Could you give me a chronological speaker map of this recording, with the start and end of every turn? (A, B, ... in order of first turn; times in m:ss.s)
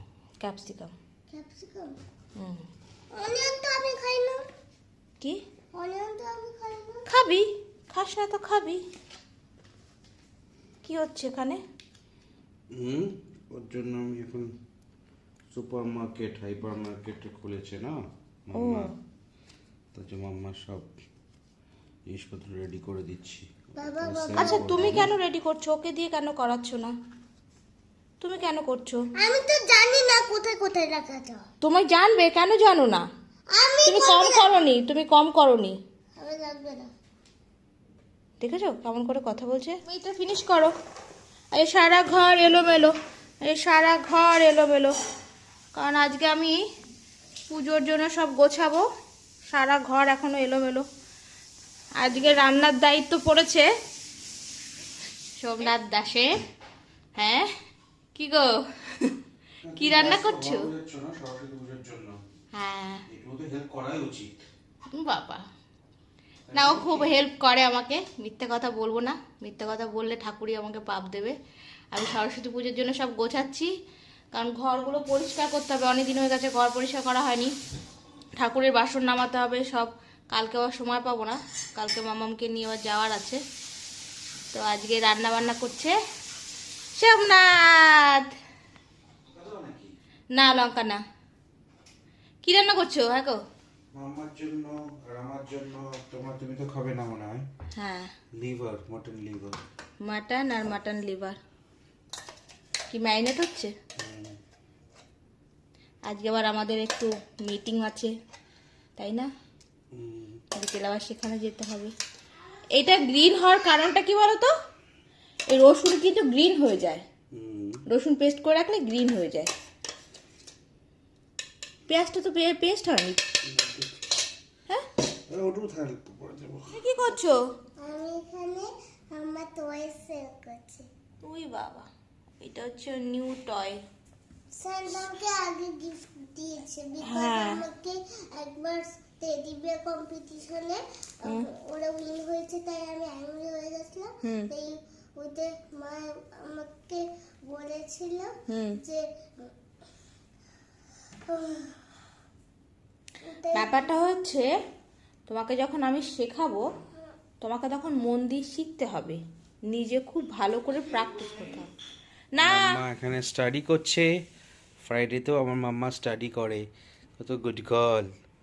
0:00.4-0:00.9 A
0:01.3-0:02.0 B
0:02.4-0:02.6 A
0:03.1-0:04.4 B
0:05.7-0:07.0 B
0:07.1-0:08.8 A
0:10.8-0:11.6 A
0:12.7-0:14.5 C
0:15.5-0:18.0 C
0:18.5-0:18.9 C
0:18.5-0:18.9 A
0:19.9-0:20.9 C
0:22.1-0:25.1 C
0:23.8-0:25.0 B
0:24.4-0:26.9 A
0:28.2-0:29.0 A
0:29.2-0:31.4 B
0:31.6-0:33.0 A
0:33.5-0:34.6 B
0:33.8-0:35.7 A
0:36.2-0:36.9 B
0:38.4-0:40.7 A
0:41.5-0:42.9 A
0:43.4-0:44.9 A
0:45.7-0:46.5 A
0:47.5-0:48.8 A
0:49.5-0:50.8 A
0:52.0-0:53.7 A
0:55.4-0:56.3 A
0:57.2-0:57.5 A
0:58.1-0:59.1 A
0:59.6-1:02.2 C
0:59.8-1:00.7 A
1:02.5-1:03.0 A
1:03.1-1:04.3 C
1:04.9-1:05.4 A
1:06.5-1:07.1 C
1:06.5-1:11.3 A
1:11.9-1:13.7 A
1:14.3-1:17.5 A
1:18.4-1:23.4 A
1:24.5-1:25.9 A
1:27.0-1:28.3 A
1:29.3-1:29.9 C
1:30.3-1:31.0 A
1:32.4-1:33.4 A
1:33.9-1:37.4 C
1:37.7-1:38.1 A
1:38.4-1:39.6 C
1:40.0-1:41.4 A
1:42.9-1:43.7 A
1:44.0-1:44.4 C
1:46.0-1:48.1 A
1:49.0-1:49.3 A
1:49.9-1:50.4 C
1:50.5-1:51.9 A
1:52.7-1:54.5 A
1:55.5-1:57.0 A
1:57.3-1:57.8 C
1:57.9-1:59.5 A
2:01.9-2:03.2 A
2:03.4-2:04.1 C
2:05.3-2:06.8 C
2:06.7-2:07.4 A
2:07.8-2:10.8 B
2:11.2-2:11.9 A
2:12.4-2:13.8 A
2:14.5-2:29.5 B
2:17.0-2:17.6 A
2:24.2-2:24.5 A
2:28.5-2:28.8 A
2:31.3-2:31.8 B
2:33.2-2:33.9 B
2:33.5-2:34.5 A
2:35.3-2:36.6 A
2:37.4-2:41.7 A
2:42.3-2:42.8 A
2:42.4-2:44.1 C
2:44.8-2:46.6 C
2:47.2-2:48.1 C